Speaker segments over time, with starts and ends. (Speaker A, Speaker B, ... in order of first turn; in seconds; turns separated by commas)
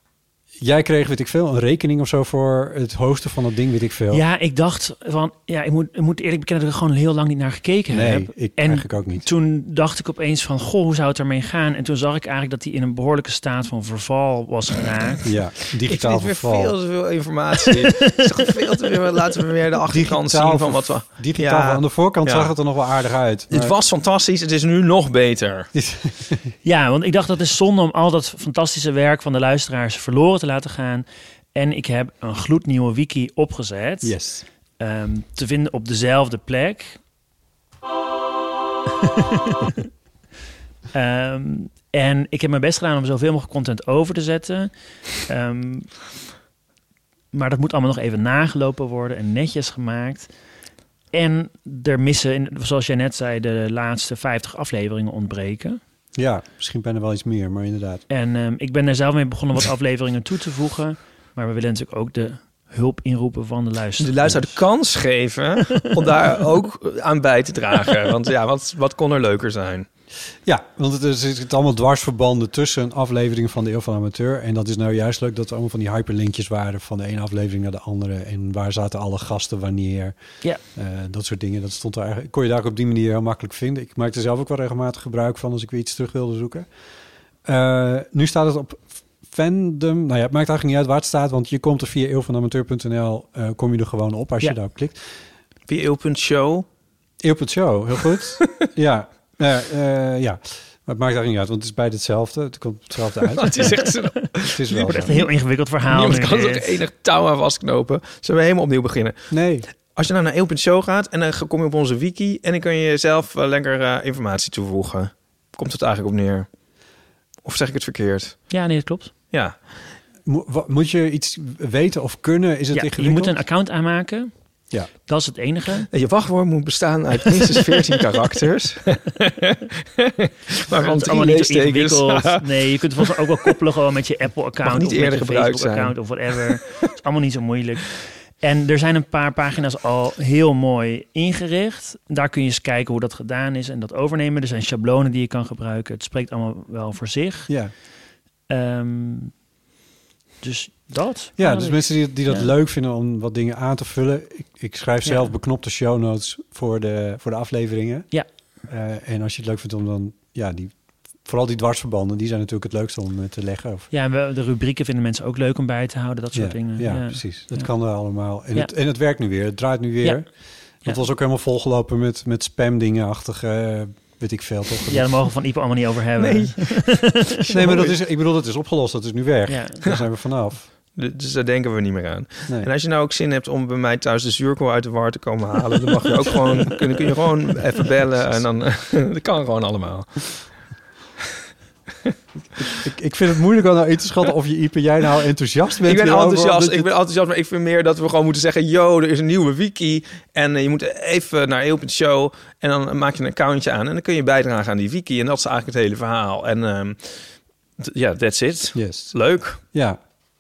Speaker A: 0.6-4.2, Speaker B: 4.1-15.3, Speaker A: 7.9-9.3, Speaker A: 15.2-16.8, Speaker C: 15.9-22.7, Speaker A: 19.9-23.7, Speaker C: 23.5-25.7, Speaker A: 25.8-26.5, Speaker B: 26.6-34.2, Speaker A: 34.0-34.5, Speaker B: 34.8-37.0, Speaker B: 39.0-39.8, Speaker B: 40.9-46.0, Speaker B: 47.3-50.3, Speaker B: 51.1-55.8, Speaker A: 56.2-58.0, Speaker B: 58.1-64.3, Speaker C: 64.0-69.9, Speaker A: 70.5-80.2, Speaker A: 80.8-86.7, Speaker A: 87.5-95.0, Speaker C: 95.7-96.7, Speaker A: 97.2-103.8, Speaker C: 98.4-98.7, Speaker C: 103.4-105.3, Speaker A: 104.5-105.1, Speaker B: 104.8-106.8, Speaker C: 105.9-109.3, Speaker A: 109.3-109.7, Speaker C: 109.9-116.5, Speaker C: 117.4-118.5, Speaker B: 118.5-119.1, Speaker C: 119.3-119.6, Speaker A: 120.2-123.4, Speaker B: 122.7-124.3, Speaker B: 125.1-125.9, Speaker C: 125.9-132.5, Speaker B: 130.7-147.5, Speaker C: 133.1-133.5, Speaker C: 134.6-135.9, Speaker A: 147.5-147.7, Speaker B: 148.5-149.3, Speaker B: 150.4-152.5, Speaker A: 151.4-158.1, Speaker B: 155.0-155.3, Speaker A: 158.7-163.9, Speaker B: 163.9-167.7, Speaker A: 166.3-170.3, Speaker A: 170.8-175.1, Speaker B: 174.9-177.5, Speaker C: 176.2-177.9, Speaker A: 177.5-180.7, Speaker B: 179.5-179.8, Speaker C: 180.9-190.5, Speaker A: 192.7-196.9, Speaker C: 195.8-207.2, Speaker C: 207.8-209.6, Speaker A: 208.8-210.0